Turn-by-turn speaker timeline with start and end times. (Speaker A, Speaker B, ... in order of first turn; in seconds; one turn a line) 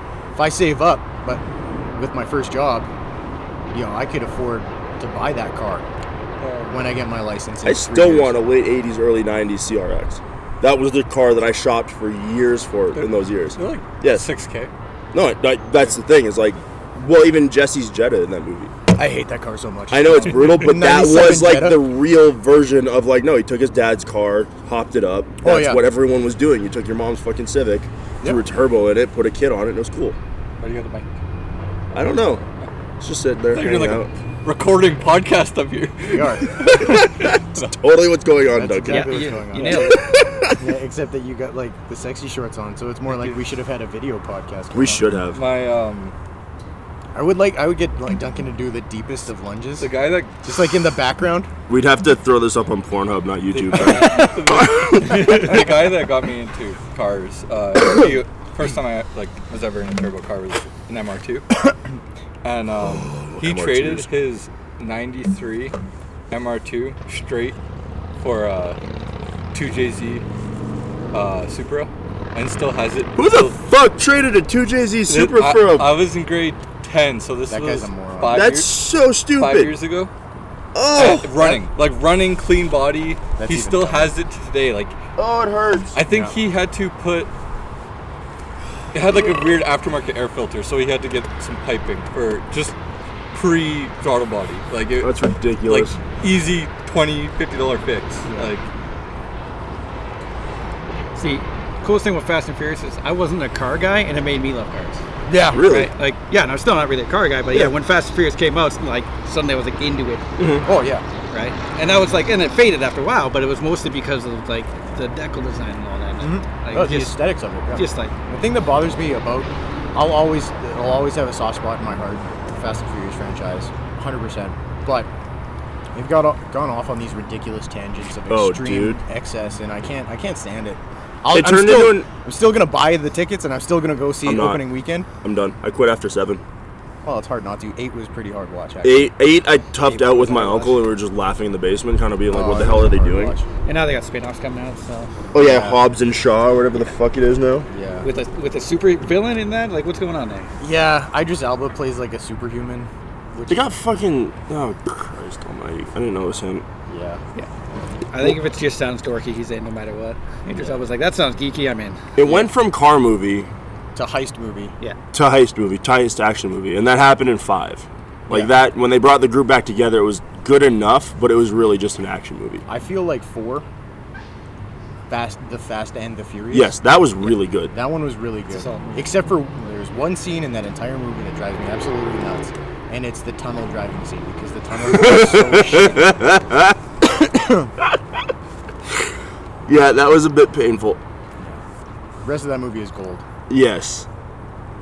Speaker A: 0.4-1.4
Speaker A: 1.9-2.9
Speaker A: 3.7-5.9
Speaker B: 6.4-6.7
Speaker A: 6.7-8.4
Speaker C: 7.6-14.3
Speaker B: 12.9-14.7
Speaker C: 15.1-18.7
Speaker A: 18.9-21.9
Speaker C: 19.9-30.2
Speaker A: 25.4-25.8
Speaker B: 30.6-31.1
Speaker C: 31.9-32.4
Speaker C: 33.0-34.1
Speaker B: 33.5-37.7
Speaker A: 36.1-36.5
Speaker C: 36.8-40.4
Speaker A: 38.5-39.9
Speaker D: 38.9-40.1
Speaker A: 40.6-45.0
Speaker C: 44.7-45.4
Speaker B: 45.3-46.1
Speaker A: 47.1-49.9
Speaker B: 49.8-50.4
Speaker A: 50.4-51.5
Speaker C: 51.7-55.6
Speaker B: 53.5-61.7
Speaker B: 62.4-65.7
Speaker C: 62.8-64.1
Speaker B: 66.3-67.6
Speaker B: 68.2-68.8
Speaker B: 69.5-70.2
Speaker B: 71.1-73.6
Speaker C: 73.2-76.0
Speaker B: 75.1-78.8
Speaker A: 77.5-78.5
Speaker C: 78.3-79.8
Speaker B: 79.3-80.1
Speaker C: 80.7-81.6
Speaker B: 81.0-85.0
Speaker A: 83.4-84.1
Speaker C: 85.2-86.0
Speaker B: 86.0-87.3
Speaker A: 86.1-86.4
Speaker B: 88.9-92.8
Speaker B: 93.3-98.7
Speaker C: 95.0-96.0
Speaker D: 101.2-105.0
Speaker A: 105.3-105.6
Speaker C: 105.5-105.9
Speaker D: 105.6-110.3
Speaker C: 110.4-110.7
Speaker A: 110.7-111.0
Speaker D: 111.3-118.1
Speaker A: 116.2-125.1
Speaker A: 126.0-135.1
Speaker C: 128.3-129.0
Speaker C: 131.3-132.1
Speaker C: 134.2-134.7
Speaker C: 135.2-136.4
Speaker A: 137.0-139.1
Speaker C: 138.8-143.3
Speaker D: 139.8-140.8
Speaker A: 142.3-143.5
Speaker D: 143.7-145.1
Speaker A: 145.3-145.8
Speaker C: 145.3-147.7
Speaker A: 147.7-148.1
Speaker D: 148.0-150.5
Speaker A: 150.6-153.6
Speaker C: 153.5-156.7
Speaker A: 156.9-157.2
Speaker D: 158.1-162.4
Speaker A: 160.5-160.8
Speaker C: 162.2-163.5
Speaker A: 164.0-164.7
Speaker C: 165.1-172.7
Speaker A: 172.7-173.7
Speaker A: 175.1-176.8
Speaker C: 176.5-177.7
Speaker A: 177.7-186.1
Speaker D: 178.5-179.1
Speaker C: 184.8-186.8
Speaker A: 187.2-187.7
Speaker C: 189.7-191.0
Speaker A: 192.2-193.2
Speaker C: 193.5-194.1